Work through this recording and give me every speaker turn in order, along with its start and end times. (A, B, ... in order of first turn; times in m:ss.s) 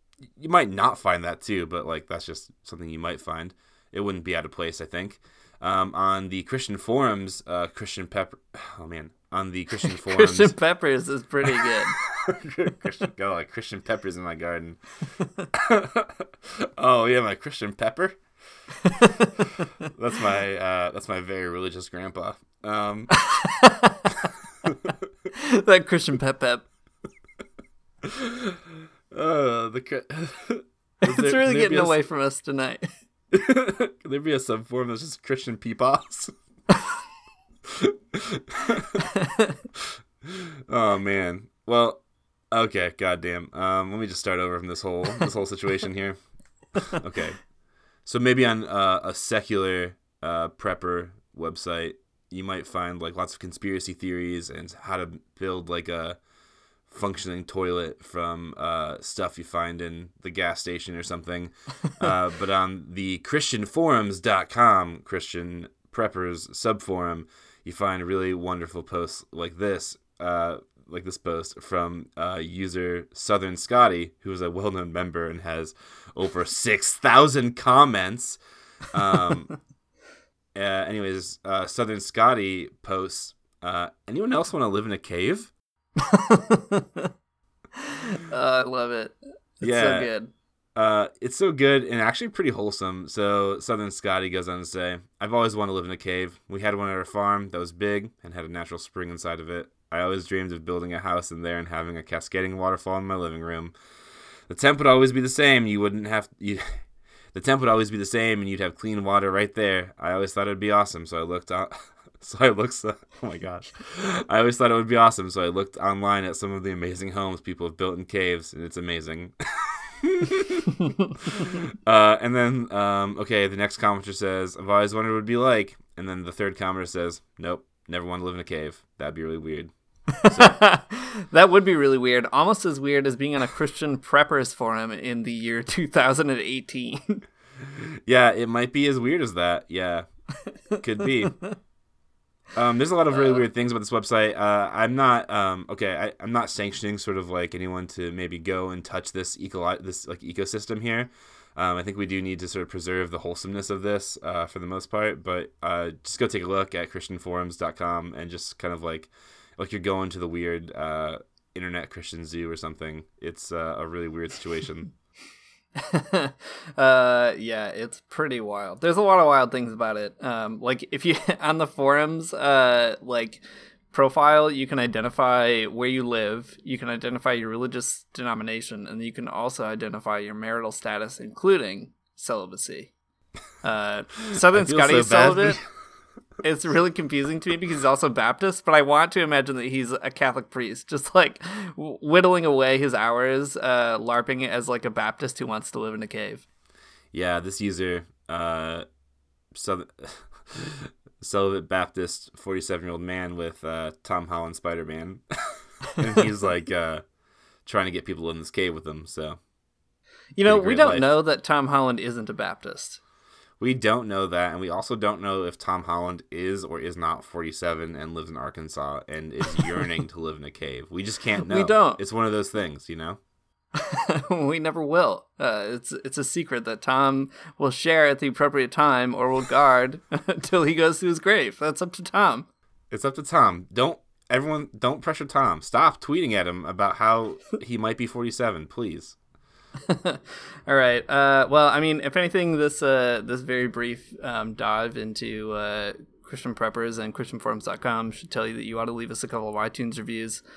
0:00.2-0:10.6 A
0:10.0-0:12.0 B
0:11.5-0:14.8 A
0:15.5-0:18.2 A
0:18.9-0:19.2 B
0:19.9-0:23.1 A
0:23.3-0:24.0 B
0:25.4-0:26.6 B
0:28.0-0:28.6 A
0:29.1-0:32.0 A
0:31.0-0:32.9 B
0:33.3-0:36.3 A
0:37.7-0:39.0 A
0:39.2-0:39.5 B
0:39.8-0:46.2 A
0:46.8-0:47.4 A
0:48.0-0:56.2 A
0:56.9-1:18.4 A
1:18.9-1:19.5 A
1:20.5-1:25.5 A
1:26.0-1:27.1 B
1:27.8-1:30.3 B
1:29.6-1:30.1 A
1:30.7-1:43.7 A
1:44.5-1:46.8 A
1:47.3-2:00.7 A
2:01.3-2:10.6 A
2:10.2-2:17.2 B
2:17.7-2:20.1 A
2:20.7-2:21.4 A
2:22.5-2:44.9 A
2:23.1-2:23.4 B
2:45.8-3:02.9 B
3:03.6-3:05.6 B
3:04.3-3:05.6 A
3:06.4-3:16.4 B
3:17.1-3:18.8 A
3:19.5-3:27.0 A
3:27.6-3:29.4 A
3:30.4-3:33.0 B
3:30.4-3:31.1 A
3:33.6-3:43.2 A
3:41.4-3:42.0 B
3:43.8-3:52.5 B
3:52.9-3:59.2 A
3:59.9-4:10.4 B